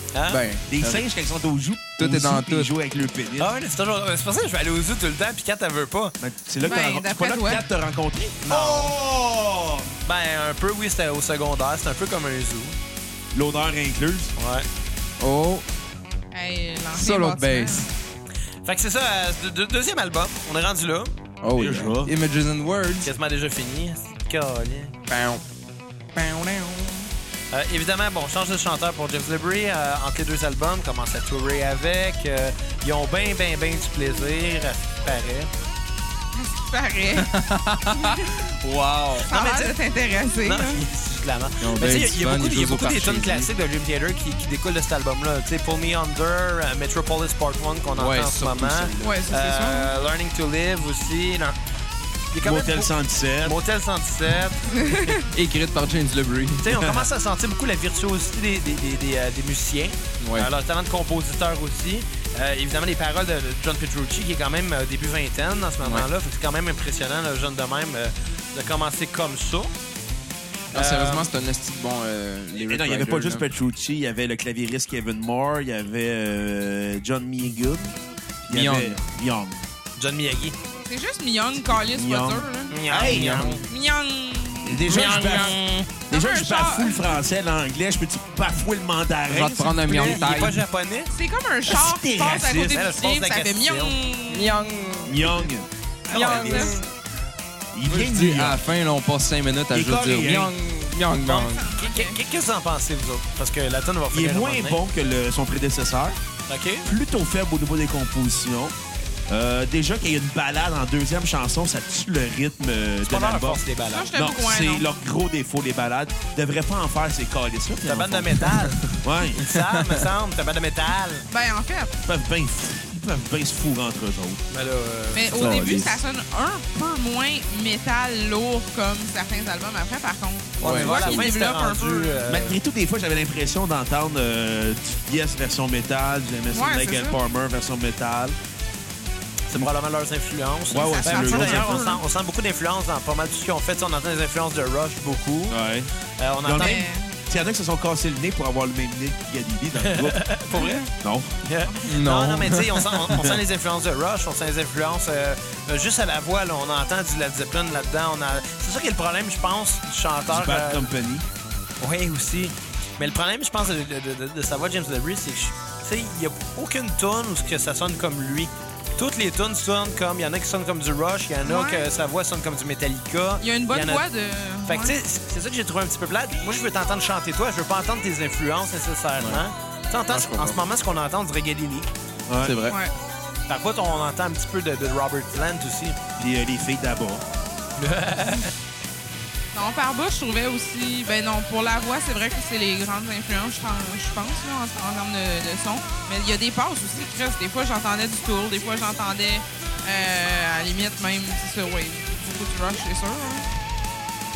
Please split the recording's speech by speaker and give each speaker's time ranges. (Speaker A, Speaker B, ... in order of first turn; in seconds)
Speaker A: 0.1-0.4, 3.4-6.1, 8.4-8.9, 10.0-12.8, 14.4-14.7, 18.6-21.1, 23.0-24.9, 27.5-35.5, 39.3-39.8, 40.4-51.5, 52.3-54.8, 56.6-69.7, 70.7-71.3, 80.0-80.5, 82.7-83.6, 84.9-85.9, 89.8-91.1, 92.6-94.0, 96.2-96.6, 101.2-104.8, 106.5-106.9, 113.0-114.1, 117.8-121.2, 124.5-125.6, 130.6-132.6, 139.5-145.6, 146.2-146.8, 149.8-150.9, 151.4-160.9, 161.8-174.0, 174.6-181.9, 183.5-186.0, 187.8-188.5
Speaker B: 0.3-1.1, 2.0-2.7, 15.2-15.6, 16.9-17.9, 21.4-23.1, 25.1-25.4, 26.1-27.1, 37.1-39.3, 41.6-43.5, 48.0-49.4, 55.1-56.9, 60.2-60.5, 70.7-73.4, 78.5-79.0, 83.1-83.6, 89.3-90.6, 94.3-95.5, 96.2-96.7, 97.8-101.7, 125.3-126.0, 130.6-131.3, 151.8-153.2, 179.2-179.4, 180.1-180.7, 182.4-182.8
Speaker C: 0.7-3.5, 6.2-9.9, 13.3-14.3, 21.5-22.1, 52.4-53.5, 72.5-77.9, 78.5-79.6, 81.7-83.6, 84.6-90.4, 91.7-92.8, 95.0-96.8, 97.7-98.6, 99.7-100.5, 104.1-106.2, 106.8-108.7, 109.3-113.6, 114.1-119.5, 122.0-124.4, 125.4-125.9, 132.2-138.3, 140.7-141.9, 145.5-145.9, 146.4-150.2, 151.0-151.4, 160.3-161.2, 182.3-182.6, 186.2-187.2
Speaker D: 6.6-7.6, 16.3-17.9, 36.3-37.3, 38.0-38.2, 39.3-40.8, 49.0-49.9, 54.8-55.2, 80.7-82.8, 83.6-87.0, 91.1-94.6, 96.1-96.7, 101.3-102.2, 113.9-114.8, 121.3-121.9, 125.1-132.2, 136.5-137.2, 140.7-142.0, 146.6-147.1, 150.5-150.8, 171.4-171.9, 173.4-174.9, 189.5-203.4